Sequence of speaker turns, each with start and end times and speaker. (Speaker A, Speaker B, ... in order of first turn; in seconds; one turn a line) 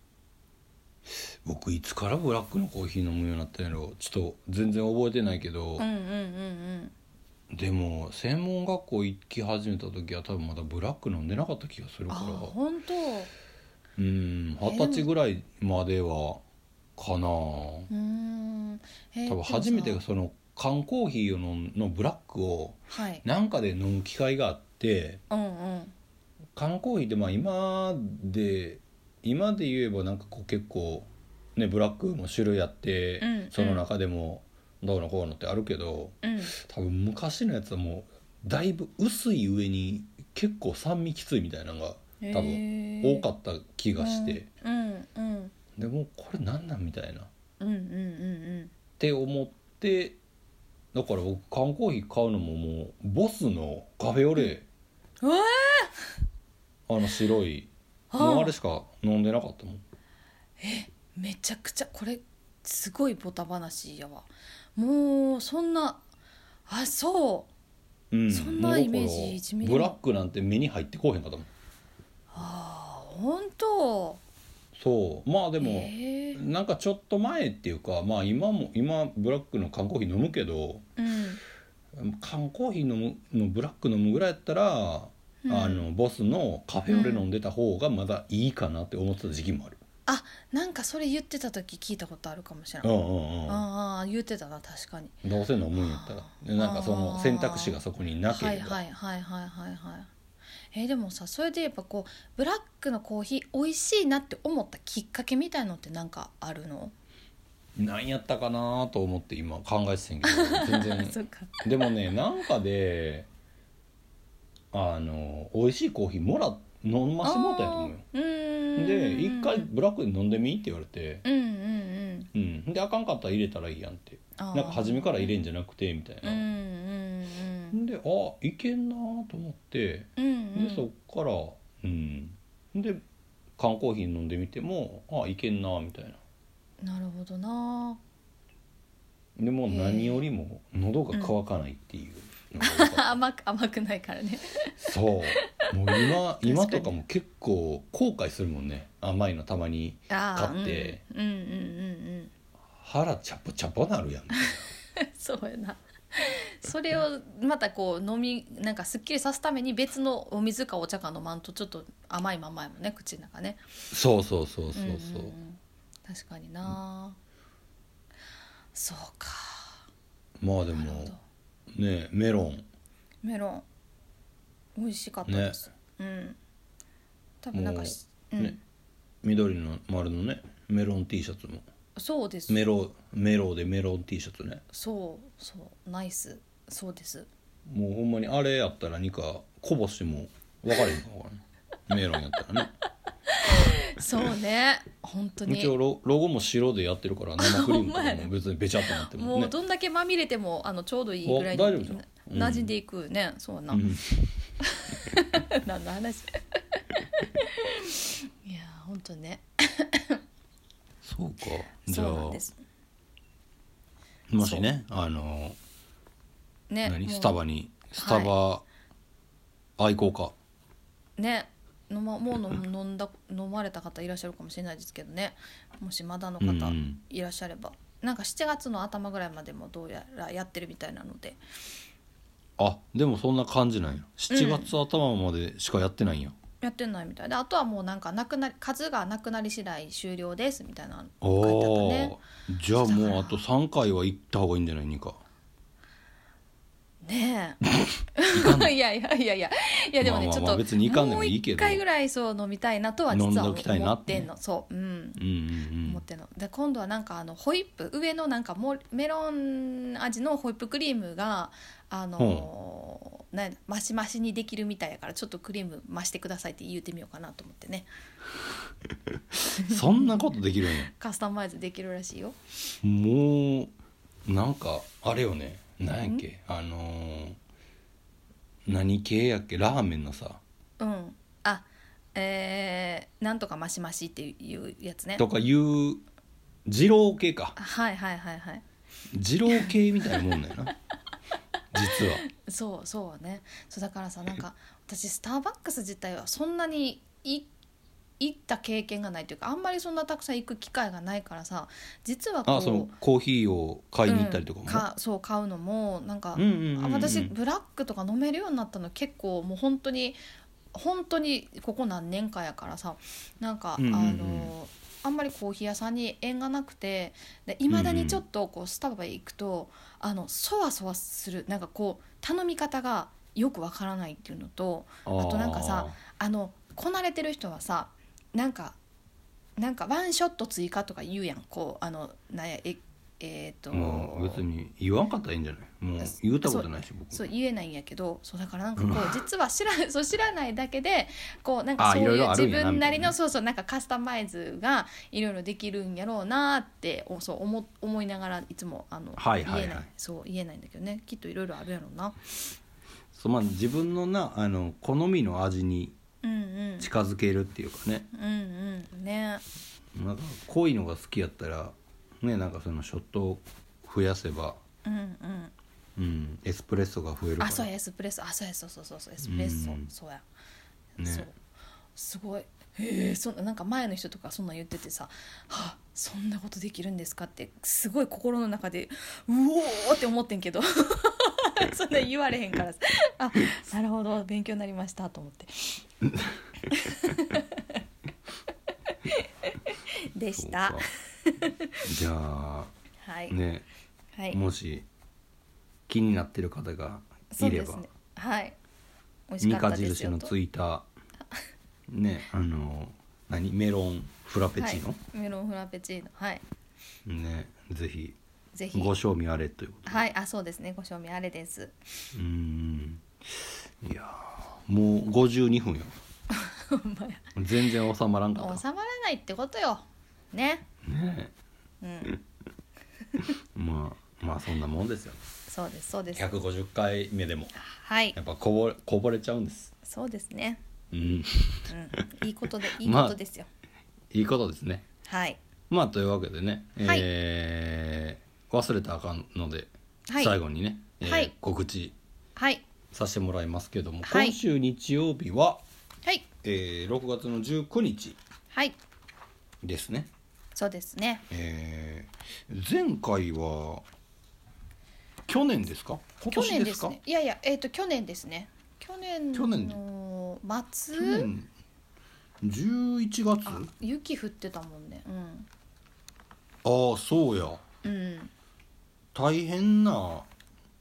Speaker A: 1.1-5.9
Speaker B: 5.8-6.9
Speaker A: 7.5-12.6
Speaker B: 12.1-13.3
Speaker A: 14.0-16.4
Speaker B: 14.6-15.1
Speaker A: 17.0-17.9
Speaker B: 17.9-20.0
Speaker A: 19.3-25.2
Speaker B: 22.9-23.2
Speaker B: 25.3-25.9
Speaker A: 26.6-44.5
Speaker B: 33.2-33.9
Speaker B: 36.2-36.5
Speaker B: 42.2-43.3
Speaker B: 44.0-45.5
Speaker A: 45.8-47.3
Speaker B: 47.6-48.7
Speaker A: 49.0-50.2
Speaker A: 50.9-54.7
Speaker B: 55.2-56.1
Speaker A: 56.9-59.8
Speaker B: 58.1-58.6
Speaker B: 60.6-66.0
Speaker B: 66.7-67.5
Speaker A: 68.1-71.5
Speaker B: 68.3-70.0
Speaker B: 72.3-74.2
Speaker A: 74.8-80.9
Speaker B: 75.6-76.4
Speaker B: 81.0-81.4
Speaker A: 82.0-89.8
Speaker B: 85.5-85.9
Speaker B: 86.9-87.3
Speaker B: 90.1-92.9
Speaker A: 92.8-93.6
Speaker B: 93.5-95.2
Speaker A: 95.2-98.8
Speaker B: 95.7-100.1
Speaker B: 100.7-106.9
Speaker A: 107.8-113.3
Speaker B: 110.2-111.9
Speaker A: 114.7-118.0
Speaker B: 117.2-119.7
Speaker A: 118.8-121.2
Speaker B: 121.2-122.3
Speaker A: 122.3-126.4
Speaker B: 124.4-125.3
Speaker B: 126.2-127.8
Speaker A: 127.7-133.0
Speaker B: 130.2-130.9
Speaker A: 133.6-136.2
Speaker B: 136.8-138.0
Speaker A: 139.4-143.1
Speaker B: 139.7-140.2
Speaker B: 142.6-144.7
Speaker A: 144.8-151.0
Speaker B: 145.3-147.0
Speaker B: 150.1-152.3
Speaker A: 152.8-154.7
Speaker B: 155.0-163.6
Speaker A: 163.9-165.3
Speaker B: 164.7-167.2
Speaker B: 168.7-169.8
Speaker A: 170.4-171.2
Speaker B: 170.7-171.2
Speaker A: 171.7-172.7
Speaker B: 173.2-173.7
Speaker B: 174.8-176.4
Speaker A: 175.2-175.6
Speaker B: 177.4-178.6
Speaker A: 177.5-178.6
Speaker A: 179.2-181.7
Speaker B: 182.0-182.7
Speaker A: 182.5-184.6
Speaker B: 184.7-187.3
Speaker A: 187.7-192.8
Speaker B: 193.3-195.7
Speaker A: 195.5-199.5
Speaker B: 197.4-198.3
Speaker B: 198.9-203.8
Speaker A: 201.2-202.7
Speaker A: 203.7-204.4
Speaker B: 204.6-210.2
Speaker A: 211.0-212.4
Speaker B: 211.9-212.6
Speaker A: 214.3-215.6
Speaker B: 214.4-214.7
Speaker B: 216.7-217.4
Speaker A: 216.8-218.6
Speaker B: 218.0-218.3
Speaker A: 219.8-220.3
Speaker B: 221.2-231.4
Speaker A: 226.4-227.0
Speaker A: 232.6-236.4
Speaker B: 234.3-234.7
Speaker B: 236.6-242.2
Speaker A: 241.2-245.2
Speaker B: 242.8-243.4
Speaker B: 247.0-247.6
Speaker B: 248.2-255.2
Speaker A: 248.3-248.7
Speaker A: 250.0-251.8
Speaker A: 253.1-254.3
Speaker A: 255.2-256.0
Speaker B: 255.8-267.9
Speaker A: 262.2-262.5
Speaker A: 269.3-270.9
Speaker B: 269.6-272.4
Speaker A: 272.8-273.7
Speaker A: 274.3-277.4
Speaker A: 278.7-280.4
Speaker B: 280.8-285.2
Speaker A: 285.2-286.0
Speaker A: 286.7-287.6
Speaker B: 287.6-288.6
Speaker A: 289.1-290.7
Speaker B: 289.5-290.3
Speaker A: 291.7-292.2
Speaker B: 291.9-297.5
Speaker B: 298.2-302.9
Speaker A: 302.5-304.9
Speaker B: 304.1-310.2
Speaker A: 306.4-307.3
Speaker B: 310.7-328.8
Speaker A: 313.8-314.5
Speaker A: 317.7-318.2
Speaker A: 325.1-326.0
Speaker B: 329.6-334.4
Speaker A: 333.7-337.2
Speaker B: 336.0-352.3
Speaker A: 338.8-339.2
Speaker A: 341.8-343.1
Speaker A: 349.2-349.9
Speaker A: 353.1-355.9
Speaker B: 356.2-356.9
Speaker A: 356.8-358.1
Speaker B: 358.1-359.4
Speaker A: 359.9-364.6
Speaker B: 364.9-365.5
Speaker A: 366.0-367.7
Speaker B: 367.4-370.2
Speaker A: 369.2-369.9
Speaker A: 371.0-371.3
Speaker B: 371.0-371.4
Speaker B: 371.9-385.8
Speaker A: 386.0-386.4
Speaker B: 386.7-387.8
Speaker B: 388.9-391.9
Speaker A: 390.4-390.9
Speaker A: 391.8-392.7
Speaker B: 393.0-393.4
Speaker A: 393.3-393.7
Speaker A: 394.3-394.9
Speaker A: 395.9-397.8
Speaker B: 397.3-398.6
Speaker B: 399.3-400.3
Speaker A: 399.4-400.9
Speaker A: 401.9-405.0
Speaker B: 404.6-406.4
Speaker A: 407.1-408.2
Speaker B: 408.5-408.9
Speaker A: 408.7-410.0
Speaker B: 409.9-411.8
Speaker A: 412.1-413.1
Speaker A: 413.8-415.9
Speaker B: 416.3-417.3
Speaker A: 417.4-418.6
Speaker B: 418.4-420.7
Speaker A: 420.9-421.3
Speaker B: 421.8-422.1
Speaker A: 423.2-425.2
Speaker B: 425.5-426.3
Speaker A: 426.1-427.5
Speaker B: 427.6-428.2
Speaker A: 428.1-429.7
Speaker B: 429.8-430.6
Speaker A: 430.9-432.1
Speaker B: 431.7-433.5
Speaker A: 432.8-433.2
Speaker A: 434.1-434.9
Speaker B: 435.1-435.4
Speaker A: 435.7-441.9
Speaker B: 440.1-440.4
Speaker B: 441.0-441.3
Speaker B: 442.4-442.6
Speaker A: 442.9-445.6
Speaker B: 444.1-444.4
Speaker A: 446.4-448.2
Speaker B: 448.5-448.8
Speaker A: 449.6-450.1
Speaker B: 450.6-451.3
Speaker A: 451.3-453.9
Speaker A: 455.3-457.0
Speaker B: 456.3-461.3
Speaker A: 459.3-459.8
Speaker A: 461.0-461.5
Speaker A: 462.4-463.7
Speaker B: 463.5-465.5
Speaker A: 466.6-467.7
Speaker B: 467.8-468.3
Speaker A: 469.1-470.3